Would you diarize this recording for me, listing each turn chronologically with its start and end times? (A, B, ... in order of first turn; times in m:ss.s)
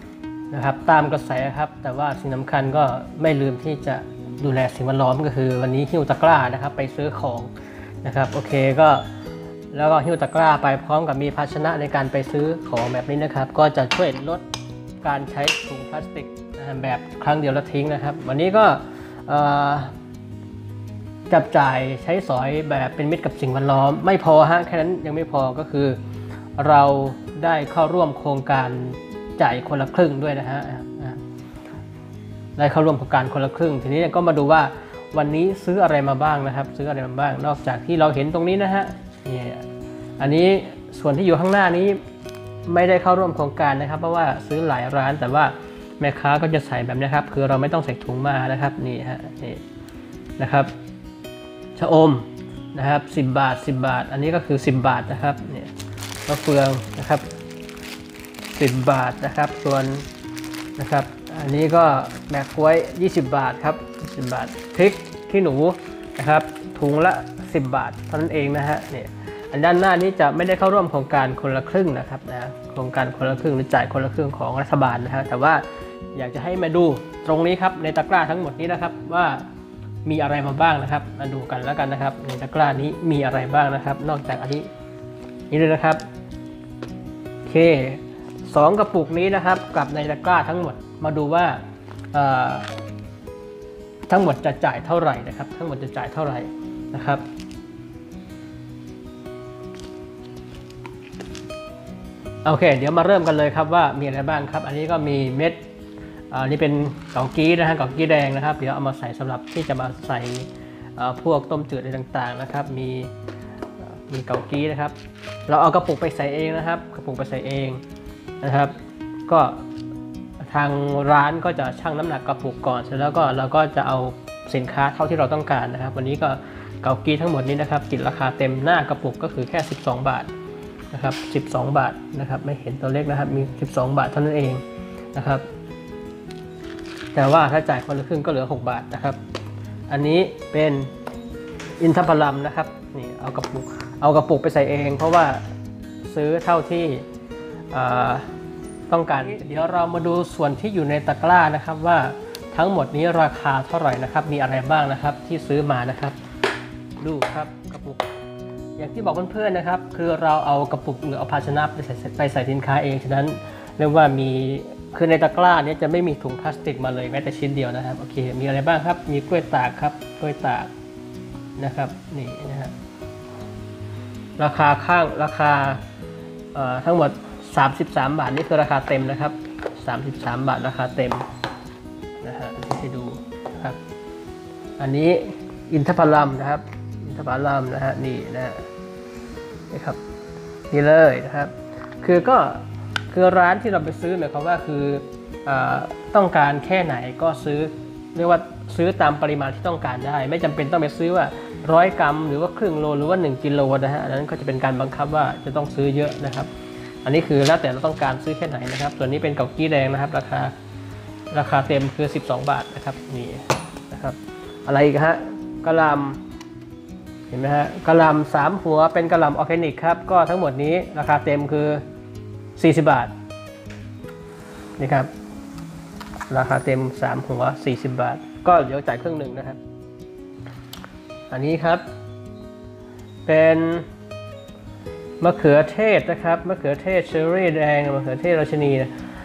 0:00.5-0:07.5 A
0:08.0-0:09.1 A
0:09.7-0:14.4 A
0:15.0-0:20.0 A
0:21.3-0:26.0 A
0:26.6-0:31.2 A
0:32.6-0:39.6 A
0:40.2-0:42.0 A
0:42.7-0:49.6 A
0:50.4-0:50.7 A
0:51.8-0:55.7 A
0:56.3-0:57.3 A
0:58.5-1:00.1 A
1:00.8-1:19.5 A
1:20.1-1:24.7 A
1:25.5-1:26.0 A
1:27.5-1:31.6 A
1:32.1-1:32.8 A
1:34.1-1:37.2 A
1:42.4-1:45.6 A
1:46.3-1:53.1 A
1:53.8-1:55.0 A
1:55.5-1:57.8 A
1:58.4-1:58.8 A
1:59.3-1:59.6 A
2:00.4-2:10.3 A
2:10.9-2:14.6 A
2:15.1-2:15.5 A
2:17.2-2:19.2 A
2:19.9-2:20.9 A
2:21.8-2:25.4 A
2:26.0-2:27.1 A
2:27.7-2:28.3 A
2:28.9-2:36.2 A
2:37.0-2:38.1 A
2:38.8-2:50.7 A
2:51.6-2:52.7 A
2:54.4-2:55.8 A
2:56.5-3:01.3 A
3:02.2-3:03.8 A
3:04.8-3:08.7 A
3:09.7-3:10.0 A
3:10.7-3:26.5 A
3:27.0-3:30.5 A
3:31.3-3:36.2 A
3:37.3-3:41.8 A
3:42.6-3:43.1 A
3:44.8-3:45.1 A
3:46.3-3:49.6 A
3:51.3-3:51.8 A
3:53.3-3:53.9 A
3:55.2-3:58.9 A